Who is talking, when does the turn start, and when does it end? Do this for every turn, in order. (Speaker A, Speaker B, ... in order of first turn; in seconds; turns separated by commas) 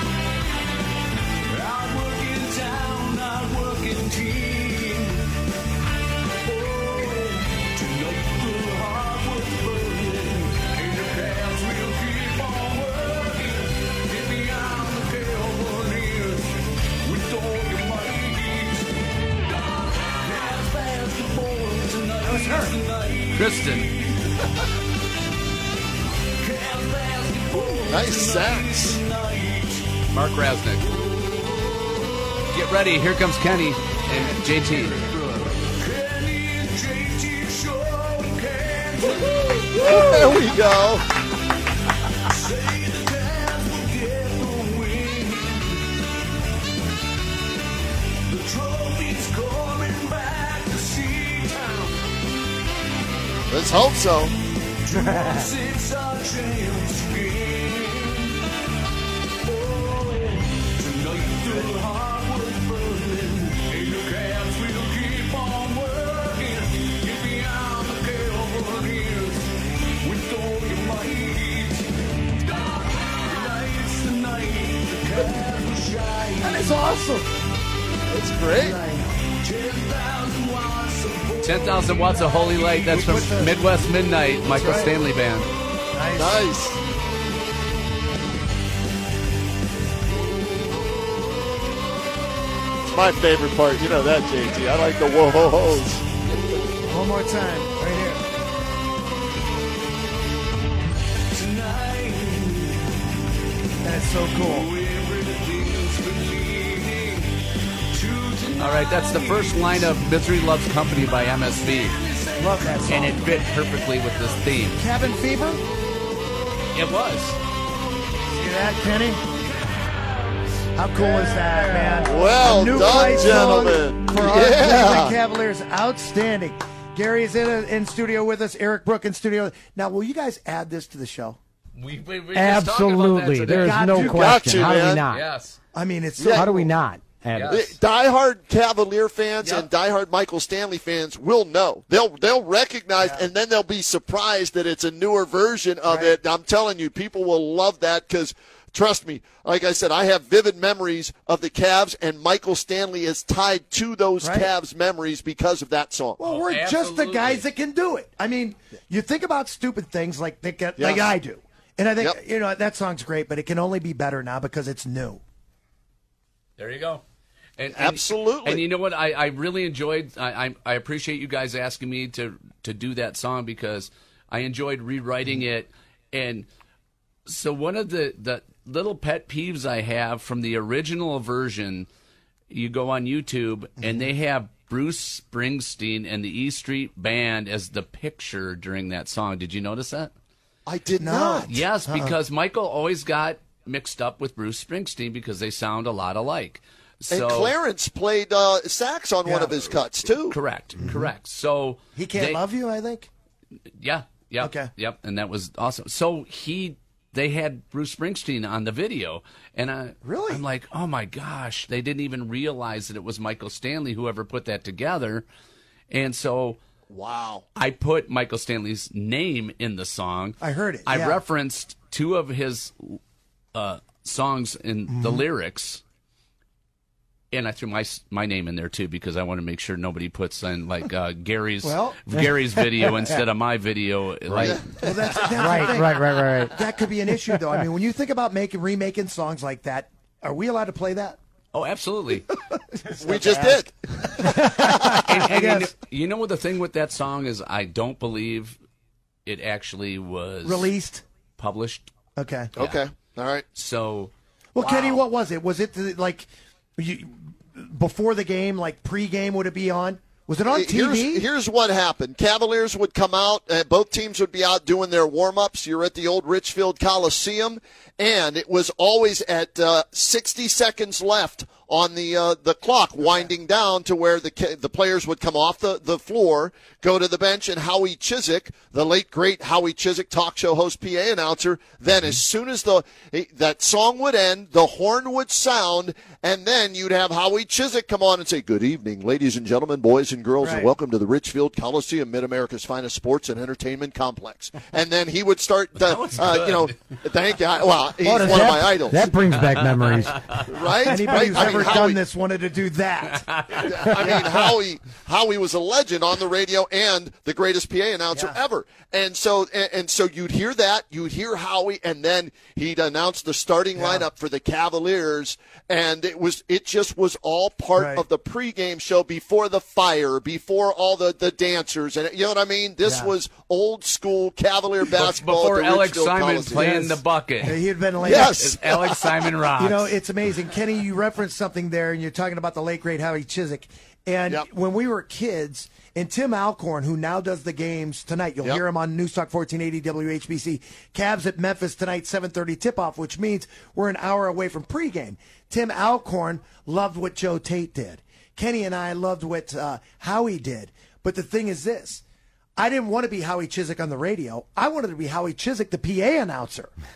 Speaker A: 1.5-5.3, Speaker A: 6.4-24.7, Speaker B: 22.2-22.7, Speaker C: 23.3-23.9, Speaker A: 26.4-29.9, Speaker D: 27.9-29.0, Speaker C: 30.1-30.8, Speaker A: 30.9-31.2, Speaker C: 32.5-35.0, Speaker A: 34.2-40.6, Speaker D: 39.8-41.0, Speaker A: 42.2-45.9, Speaker A: 48.2-52.0, Speaker D: 53.5-54.3, Speaker A: 54.8-58.4, Speaker E: 54.9-55.5, Speaker A: 59.4-77.0, Speaker B: 76.4-77.3, Speaker D: 78.0-78.8, Speaker B: 78.5-79.1, Speaker A: 79.4-82.7, Speaker C: 81.4-85.5, Speaker B: 82.9-83.5, Speaker B: 84.5-84.9, Speaker B: 85.9-86.4, Speaker D: 86.2-86.8, Speaker D: 92.8-96.0, Speaker B: 96.9-98.2, Speaker A: 101.3-103.0, Speaker B: 103.8-104.7, Speaker A: 104.3-107.4, Speaker A: 107.9-110.0, Speaker C: 108.6-111.9, Speaker A: 111.1-114.7, Speaker B: 112.4-113.2, Speaker C: 112.9-114.8, Speaker B: 114.8-115.6, Speaker C: 116.7-117.4, Speaker B: 118.3-119.2, Speaker A: 119.3-122.2, Speaker B: 120.8-131.4, Speaker D: 122.1-125.2, Speaker C: 131.8-134.1, Speaker E: 132.3-135.2, Speaker B: 133.5-134.7, Speaker D: 134.0-135.0, Speaker C: 135.1-135.6, Speaker B: 135.7-136.7, Speaker D: 136.2-136.5, Speaker E: 136.3-137.7, Speaker C: 137.3-137.7, Speaker D: 137.5-156.2, Speaker B: 143.0-143.3, Speaker B: 145.9-146.2, Speaker B: 154.2-154.5, Speaker B: 156.2-165.2, Speaker C: 156.2-157.5, Speaker D: 160.8-161.1, Speaker C: 166.6-167.0, Speaker C: 167.6-176.5, Speaker D: 167.7-168.6, Speaker C: 177.2-181.9, Speaker C: 182.5-190.1, Speaker D: 190.7-191.5, Speaker B: 191.0-192.1, Speaker C: 191.4-197.5, Speaker D: 197.1-200.4, Speaker B: 199.2-199.6, Speaker C: 200.2-202.4, Speaker B: 200.8-201.1, Speaker B: 201.9-203.1, Speaker C: 203.8-215.2, Speaker B: 204.4-204.7, Speaker B: 210.0-210.4, Speaker C: 215.9-216.6, Speaker D: 216.9-217.4, Speaker C: 217.5-223.0, Speaker B: 220.4-221.2, Speaker C: 223.5-225.8, Speaker B: 224.9-225.2, Speaker C: 227.3-234.9, Speaker B: 231.6-232.0, Speaker D: 234.4-234.7, Speaker B: 234.7-241.2, Speaker E: 235.3-236.6, Speaker E: 237.3-237.6, Speaker C: 241.5-242.3, Speaker B: 242.5-245.7, Speaker D: 243.0-245.1, Speaker C: 244.9-248.6, Speaker C: 249.2-250.7, Speaker B: 250.4-251.0, Speaker C: 251.4-251.9, Speaker B: 252.2-252.5, Speaker D: 252.6-253.4, Speaker C: 252.6-252.8, Speaker C: 253.5-254.1, Speaker B: 254.5-261.3, Speaker D: 254.6-255.0, Speaker D: 260.4-299.1, Speaker B: 290.4-290.7, Speaker C: 295.8-296.9, Speaker E: 298.0-300.4, Speaker C: 299.3-300.6, Speaker D: 300.5-302.0, Speaker B: 300.9-304.4, Speaker C: 301.3-301.8, Speaker C: 303.1-304.0, Speaker D: 303.6-326.8, Speaker B: 313.8-314.1, Speaker B: 317.8-318.0, Speaker B: 322.8-323.1, Speaker C: 325.0-330.0, Speaker B: 326.5-328.5, Speaker D: 328.0-329.0, Speaker B: 329.6-352.0, Speaker B: 352.6-356.7